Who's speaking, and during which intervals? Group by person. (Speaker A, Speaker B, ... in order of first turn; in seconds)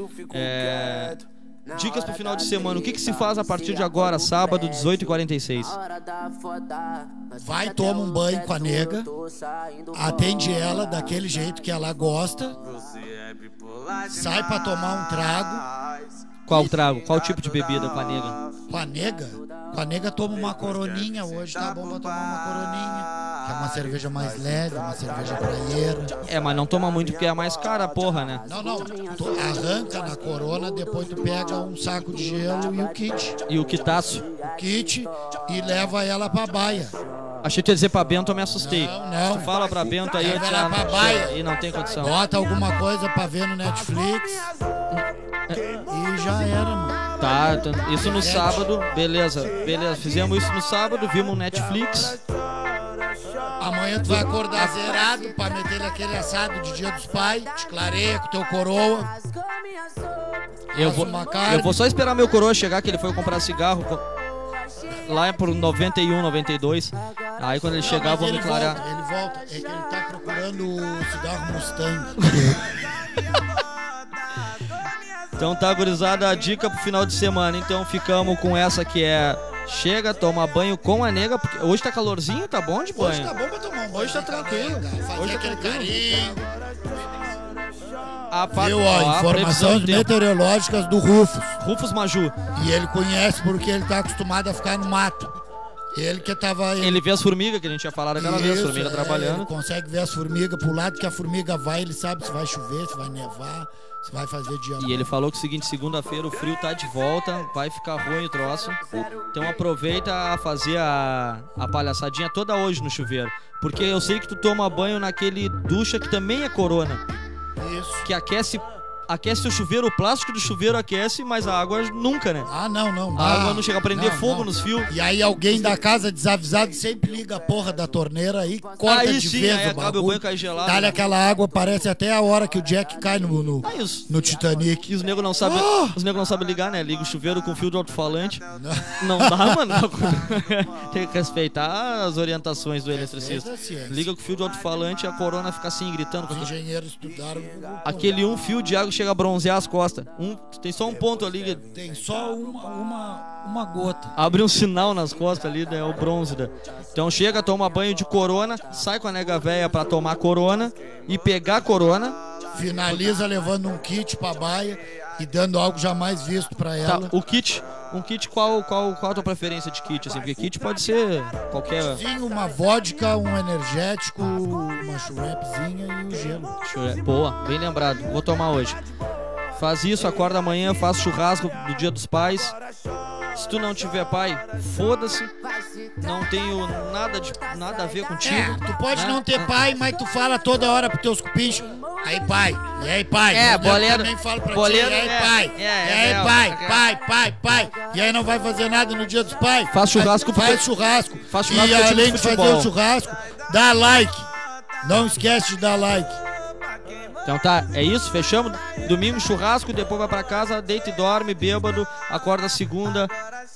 Speaker A: 0.3-5.8, 16.5-18.4, 26.2-28.5, 33.5-34.3, 37.4-42.1, 44.9-45.6, 47.2-52.2, 54.0-54.7, 60.7-64.0, 65.0-68.8, 72.2-72.5, 75.4-83.3, 83.9-85.9, 88.3-90.1, 91.6-92.3, 96.8-99.5, 104.8-117.0, 118.0-122.5, 123.1-124.9, 128.8-131.0, 133.6-134.1, 134.8-138.4, 139.0-146.5, 147.8-151.6, 154.2-162.2, 166.9-172.0, 176.6-178.8, 179.6-182.6, 183.3-185.3, 186.0-189.5, 193.3-196.8, 199.7-200.6, 201.3-202.7, 207.2-213.1
Speaker B: 7.3-9.1, 9.9-12.6, 14.1-15.7, 16.5-16.8, 18.7-26.1, 28.4-33.4, 34.3-37.0, 38.5-41.4, 42.0-44.5, 45.9-47.1, 47.9-48.7, 53.6-59.2, 60.7-61.8, 67.8-72.9, 83.0-86.5, 88.5-91.6, 92.5-95.3, 95.9-97.0, 98.2-105.1, 117.6-118.1, 122.5-134.9, 135.4-136.0, 138.5-139.8, 142.9-144.1, 146.3-148.2, 151.7-154.2, 162.5-167.1, 171.8-176.6, 188.2-204.3, 204.8-206.2